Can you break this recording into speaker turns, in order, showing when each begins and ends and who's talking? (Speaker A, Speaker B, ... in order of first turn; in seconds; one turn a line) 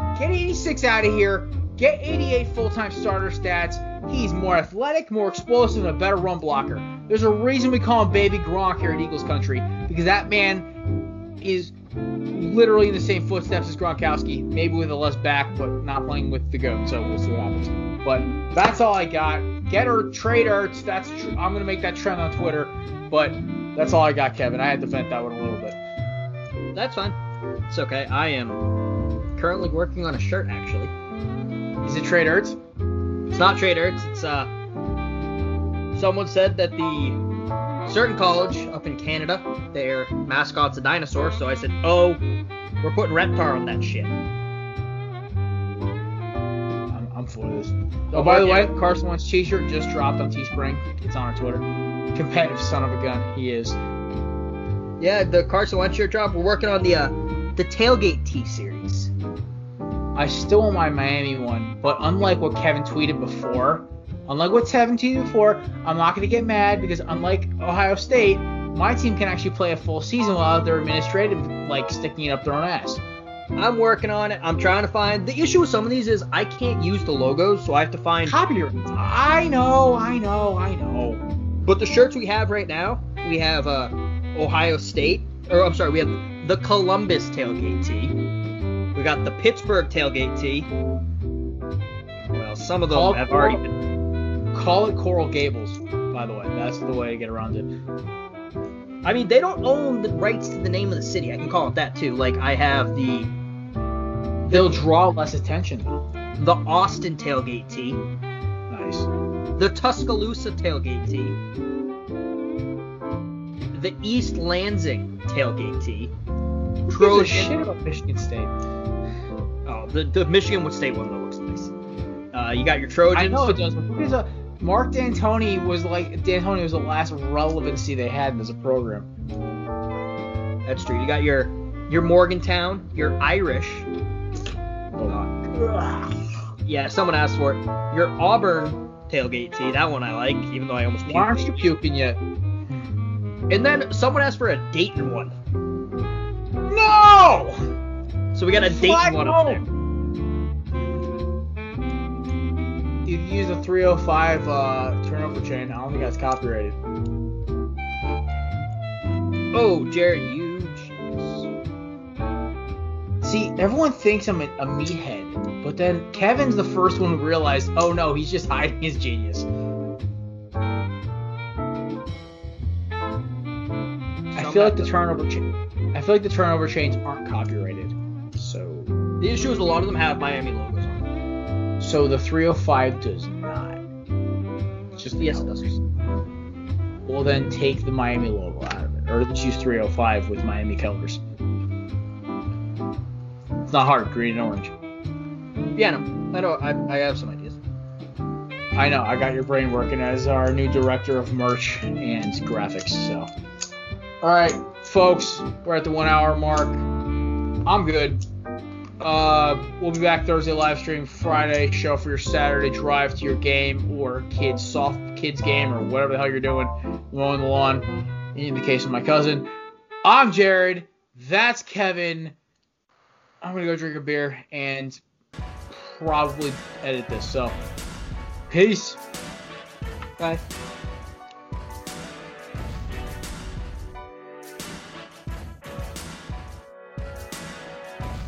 Speaker A: 0.1-10.7
Speaker A: 11.4-11.8
Speaker A: 12.3-25.8
Speaker B: 26.7-27.2
Speaker B: 27.7-28.6
Speaker B: 29.4-30.9
Speaker A: 31.8-32.6
Speaker B: 33.3-34.5
Speaker B: 35.9-37.2
Speaker B: 37.9-42.2
Speaker B: 42.8-44.1
Speaker A: 46.9-53.8
Speaker B: 48.1-48.8
Speaker B: 55.0-59.1
Speaker A: 60.1-73.0
Speaker B: 73.6-78.4
Speaker A: 78.3-81.2
Speaker B: 81.7-88.2
Speaker B: 89.0-90.7
Speaker B: 92.3-93.8
Speaker A: 92.9-93.6
Speaker A: 94.5-97.7
Speaker B: 99.0-103.3
Speaker B: 104.5-104.8
Speaker A: 104.5-106.0
Speaker B: 106.4-108.0
Speaker A: 108.7-109.1
Speaker B: 109.6-111.4
Speaker B: 113.7-116.1
Speaker A: 116.9-118.5
Speaker B: 116.9-117.5
Speaker B: 119.7-121.7
Speaker B: 122.3-123.6
Speaker A: 123.1-129.1
Speaker B: 130.7-133.9
Speaker A: 135.0-136.2
Speaker B: 136.7-141.7
Speaker A: 141.1-142.2
Speaker B: 143.5-145.3
Speaker A: 146.7-147.7
Speaker B: 148.3-149.6
Speaker A: 148.7-149.6
Speaker A: 153.1-156.8
Speaker B: 159.5-161.5
Speaker A: 163.2-169.5
Speaker A: 174.3-178.9
Speaker B: 174.4-174.9
Speaker B: 179.2-181.1
Speaker A: 181.8-183.8
Speaker A: 184.9-185.8
Speaker B: 185.2-185.7
Speaker A: 187.1-191.2
Speaker A: 193.7-194.7
Speaker B: 195.8-197.6
Speaker A: 198.7-203.3
Speaker A: 204.2-206.8
Speaker A: 207.7-208.2
Speaker A: 209.0-219.5
Speaker A: 220.0-222.3
Speaker A: 223.4-225.0
Speaker A: 225.7-227.6
Speaker A: 228.5-229.0